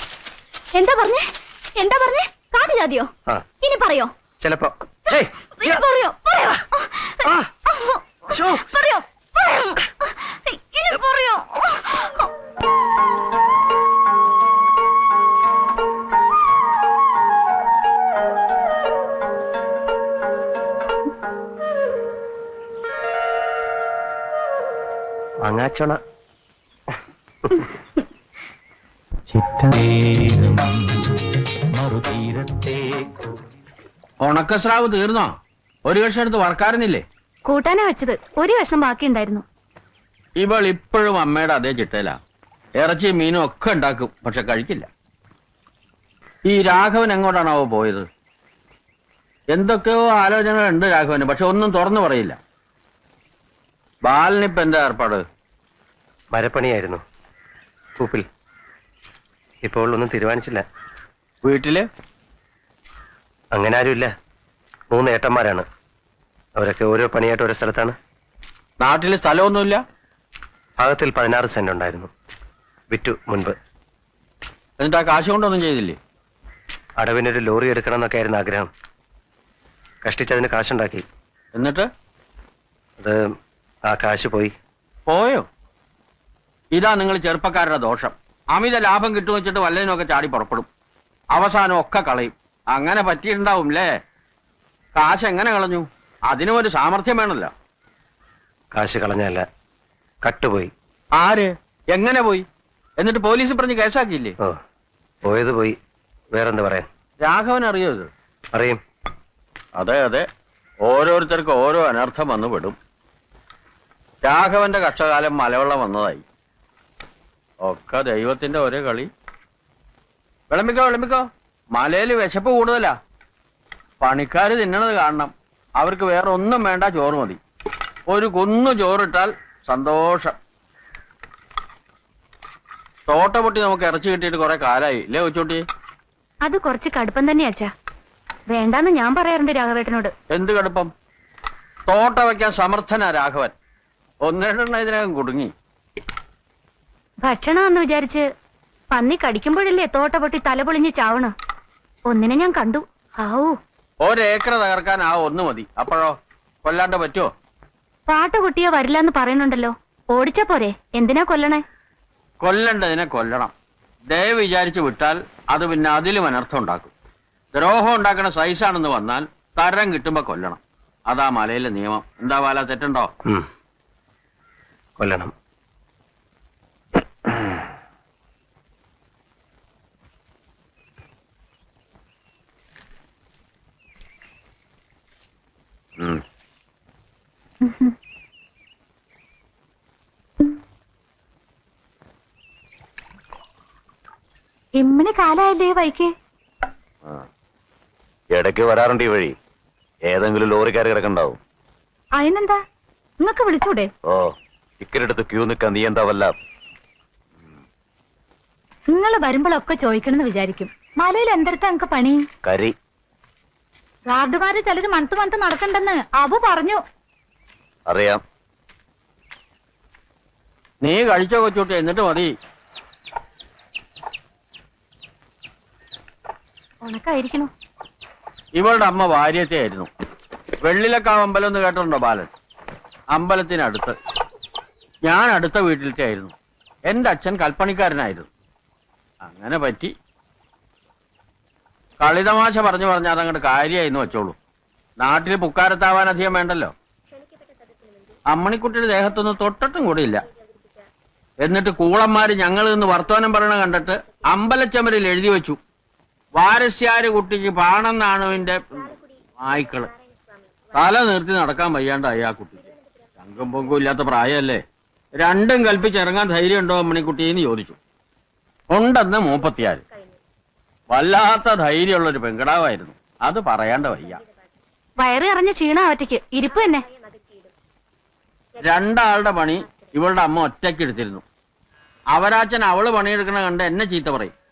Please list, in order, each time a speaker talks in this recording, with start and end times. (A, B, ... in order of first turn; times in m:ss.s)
0:00.7-0:04.1 A
0:04.4-0:05.8 B
0:05.1-0:12.3 A
0:08.3-0:08.7 B
0:25.4-0:26.0 B
0:34.2-0:35.3 C
0:35.8-0:37.0 C
0:37.4-0:39.4 D
0:40.4-0:42.2 C
0:42.8-0:44.9 C
0:46.4-0:48.0 C
0:49.5-0:52.4 C
0:54.0-0:55.2 C
0:56.3-0:57.0 B
0:58.0-0:58.2 B
0:59.6-1:00.6 B
1:01.4-1:01.8 C
1:03.5-1:04.1 B
1:04.9-1:05.6 B
1:06.6-1:07.9 B
1:08.8-1:09.8 C
1:10.8-1:12.1 B
1:12.9-1:13.5 B
1:14.8-1:16.0 C
1:17.0-1:18.7 B
1:20.0-1:21.0 B
1:21.5-1:21.9 C
1:23.0-1:23.3 B
1:23.9-1:24.5 B
1:25.1-1:25.4 C
1:26.7-1:30.7 C
1:31.3-1:33.9 C
1:34.9-1:37.5 C
1:38.7-1:39.4 B
1:40.2-1:40.7 B
1:41.2-1:42.4 C
1:43.0-1:44.3 C
1:45.2-1:45.8 B
1:46.3-1:46.8 B
1:47.2-1:48.1 C
1:48.5-1:48.8 B
1:49.8-1:50.2 C
1:50.8-1:52.8 C
1:54.2-1:56.2 C
1:57.6-1:59.1 C
2:00.5-2:03.0 C
2:04.0-2:07.4 C
2:08.1-2:10.4 C
2:13.1-2:15.6 C
2:16.4-2:17.7 D
2:18.5-2:20.1 D
2:20.3-2:20.9 C
2:21.8-2:23.5 C
2:24.2-2:25.5 C
2:27.2-2:28.2 D
2:28.9-2:31.3 D
2:32.1-2:33.6 D
2:34.0-2:37.3 C
2:38.1-2:41.6 D
2:42.4-2:43.5 C
2:44.1-2:46.9 C
2:47.5-2:53.1 C
2:55.0-2:55.3 B
3:14.8-3:16.1 E
3:18.3-3:19.3 F
3:20.1-3:21.4 F
3:22.2-3:22.6 E
3:23.2-3:23.9 E
3:24.8-3:26.3 F
3:28.9-3:32.2 E
3:34.1-3:36.8 E
3:37.9-3:38.2 F
3:40.8-3:42.3 C
3:46.8-3:47.5 D
3:48.5-3:49.9 C
3:50.6-3:52.3 C
3:53.1-3:53.9 C
3:55.0-3:56.3 C
3:56.9-3:58.3 C
3:59.2-3:59.9 C
4:02.0-4:04.4 C
4:05.0-4:06.7 C
4:08.3-4:10.2 C
4:11.4-4:15.6 C
4:16.4-4:19.9 C
4:20.7-4:24.6 C
4:25.2-4:27.8 C
4:28.7-4:29.8 C
4:30.9-4:34.2 C
4:35.0-4:36.8 D
4:38.6-4:41.2 C
4:42.1-4:44.3 C